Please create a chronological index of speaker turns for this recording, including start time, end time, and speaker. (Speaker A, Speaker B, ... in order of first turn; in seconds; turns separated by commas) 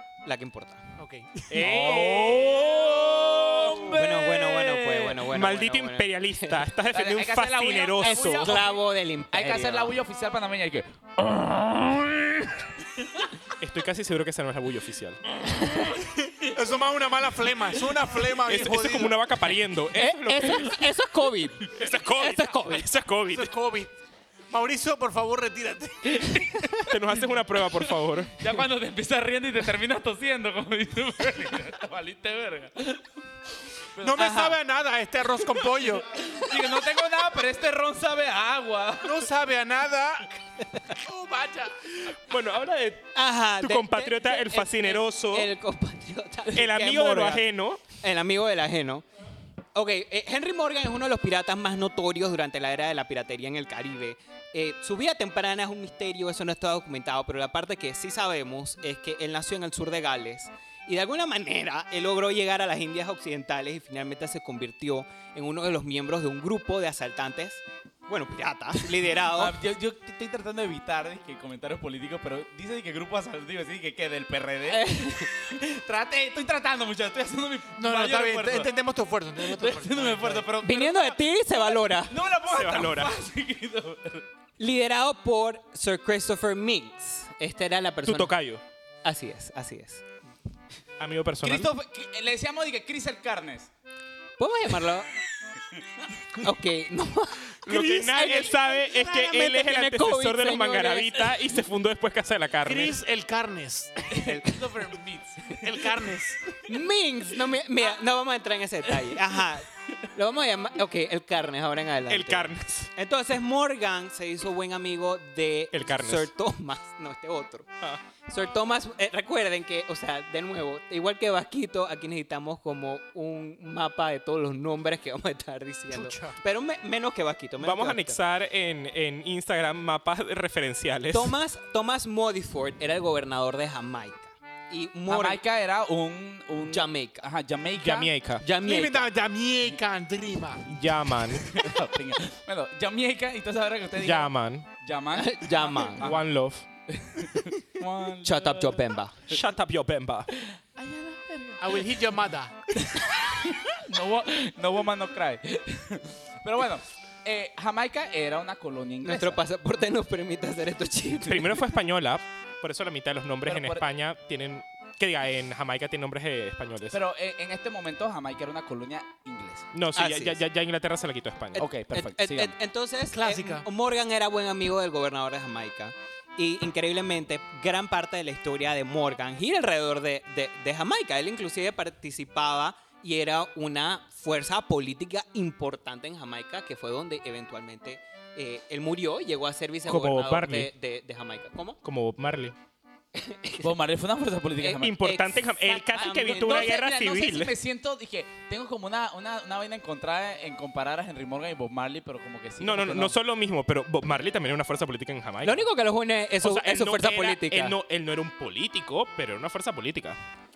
Speaker A: 0.2-0.8, Speaker B: 1.0-2.0, Speaker C: 1.5-2.9, Speaker D: 1.5-5.2, Speaker A: 3.9-6.6, Speaker C: 5.3-8.6, Speaker D: 6.9-13.2, Speaker A: 8.0-9.9, Speaker C: 13.6-15.2, Speaker B: 16.4-19.1, Speaker C: 18.4-20.7, Speaker A: 19.9-22.9, Speaker D: 20.5-20.8, Speaker C: 21.7-23.5, Speaker B: 23.3-23.9, Speaker B: 24.5-26.3, Speaker A: 26.5-26.8, Speaker C: 26.7-28.4, Speaker D: 27.6-33.1, Speaker D: 33.9-34.3, Speaker B: 34.0-36.1, Speaker A: 34.1-34.6, Speaker D: 36.1-39.3, Speaker B: 39.0-40.4, Speaker B: 40.9-41.8, Speaker C: 42.0-45.5, Speaker A: 43.1-49.0, Speaker C: 46.5-47.8, Speaker A: 49.7-69.5, Speaker D: 69.2-78.7, Speaker A: 74.7-75.3, Speaker B: 77.8-80.5, Speaker D: 79.4-84.2, Speaker A: 80.6-82.2, Speaker C: 82.5-83.1, Speaker A: 84.6-88.3, Speaker C: 88.0-88.6, Speaker A: 89.0-90.0, Speaker C: 91.0-91.7, Speaker D: 91.4-93.7, Speaker A: 94.4-95.1, Speaker D: 95.7-96.0, Speaker A: 96.4-97.5, Speaker C: 97.6-103.0, Speaker B: 97.7-98.7, Speaker A: 98.1-101.2, Speaker B: 102.6-104.7, Speaker D: 104.1-106.1, Speaker B: 105.6-106.5, Speaker A: 106.7-117.7, Speaker C: 112.1-112.9, Speaker C: 115.7-116.3, Speaker A: 118.2-128.2, Speaker B: 125.9-126.4, Speaker C: 127.6-131.3, Speaker A: 131.1-135.4, Speaker D: 135.1-138.1, Speaker A: 136.7-137.2, Speaker C: 137.8-138.4, Speaker A: 138.4-139.1, Speaker B: 138.6-140.7, Speaker C: 140.7-141.5, Speaker D: 141.3-146.2, Speaker C: 144.0-144.7, Speaker A: 145.1-146.1, Speaker C: 146.0-146.7, Speaker D: 146.9-148.9, Speaker A: 148.2-149.2, Speaker C: 149.3-150.3, Speaker D: 150.4-152.0, Speaker B: 151.6-152.6, Speaker D: 152.8-159.4, Speaker A: 159.0-161.6, Speaker C: 161.2-167.0, Speaker D: 163.4-163.8, Speaker D: 166.9-169.7, Speaker C: 169.7-171.6, Speaker A: 169.9-170.4, Speaker A: 171.5-191.8, Speaker D: 171.6-172.5, Speaker B: 173.1-173.7, Speaker C: 189.8-190.7, Speaker C: 191.8-192.5, Speaker A: 193.1-193.7, Speaker D: 193.6-195.0, Speaker A: 194.6-196.7, Speaker C: 194.7-197.5, Speaker D: 196.0-203.1, Speaker C: 202.6-205.7, Speaker A: 205.4-207.7, Speaker C: 206.4-210.2